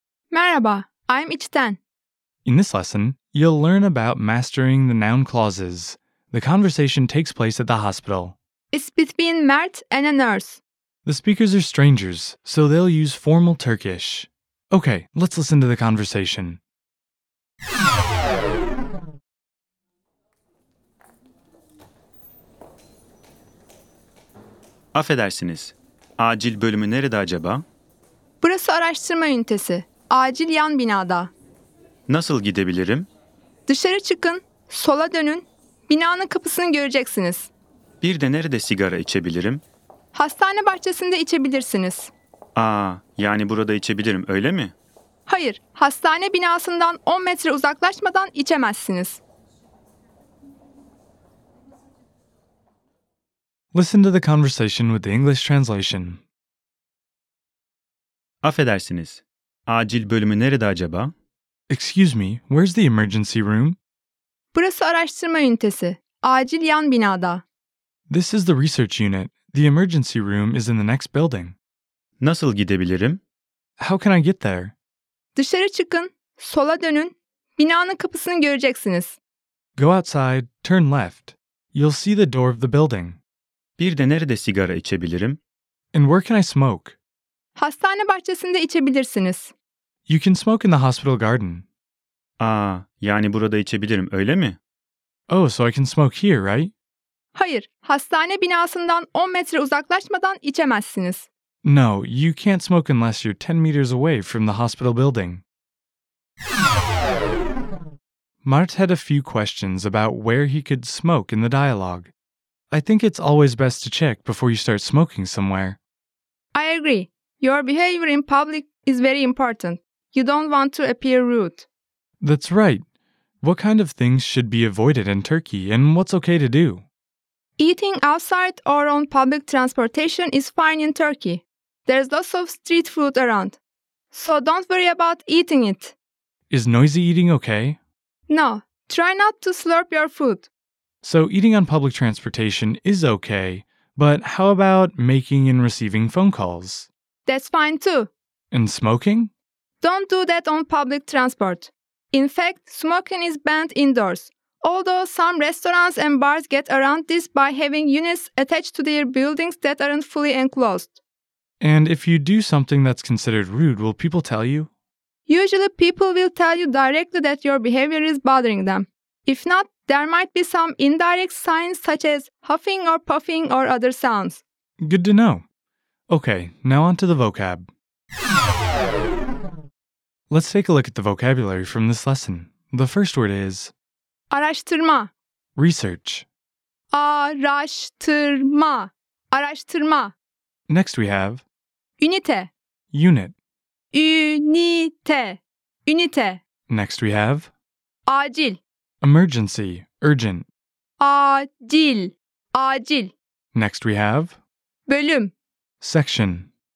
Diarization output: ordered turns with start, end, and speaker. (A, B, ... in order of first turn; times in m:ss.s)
0:00.3-0:01.8 A
0:02.4-0:08.4 B
0:08.7-0:10.6 A
0:11.0-0:16.6 B
0:25.0-0:27.6 C
0:28.4-0:31.3 A
0:32.1-0:33.1 C
0:33.7-0:37.5 A
0:38.0-0:39.6 C
0:40.1-0:42.1 A
0:42.6-0:44.7 C
0:45.3-0:49.2 A
0:53.7-0:56.2 B
0:58.4-1:01.1 C
1:01.7-1:03.8 B
1:04.5-1:07.4 A
1:08.1-1:11.6 B
1:12.2-1:13.2 C
1:13.8-1:14.7 B
1:15.4-1:19.2 A
1:19.8-1:23.2 B
1:23.8-1:25.4 C
1:25.9-1:27.0 B
1:27.6-1:29.5 A
1:30.1-1:31.6 B
1:32.4-1:34.6 C
1:35.3-1:36.7 B
1:37.3-1:41.3 A
1:41.6-1:45.4 B
1:48.4-1:52.1 B
1:52.7-1:55.8 B
1:56.5-2:01.7 A
2:02.2-2:02.8 B
2:03.4-2:06.8 B
2:07.6-2:13.6 A
2:14.1-2:16.0 A
2:16.5-2:17.8 B
2:18.3-2:20.5 A
2:21.0-2:26.9 B
2:27.3-2:28.1 A
2:28.5-2:29.3 B
2:29.8-2:41.0 A
2:41.6-2:44.7 B
2:45.3-2:54.4 A
2:54.8-2:55.4 B
2:56.1-2:57.7 B
3:00.3-3:03.7 B
3:04.3-3:05.1 A
3:05.6-3:06.3 B
3:06.9-3:10.1 A
3:10.7-3:11.4 B
3:12.0-3:12.5 A
3:12.9-3:13.3 B
3:13.9-3:16.4 A
3:16.7-3:17.5 B
3:18.1-3:18.6 A
3:19.0-3:20.5 B
3:21.0-3:23.1 A
3:23.5-3:24.4 B
3:24.9-3:25.3 A
3:25.8-3:26.5 B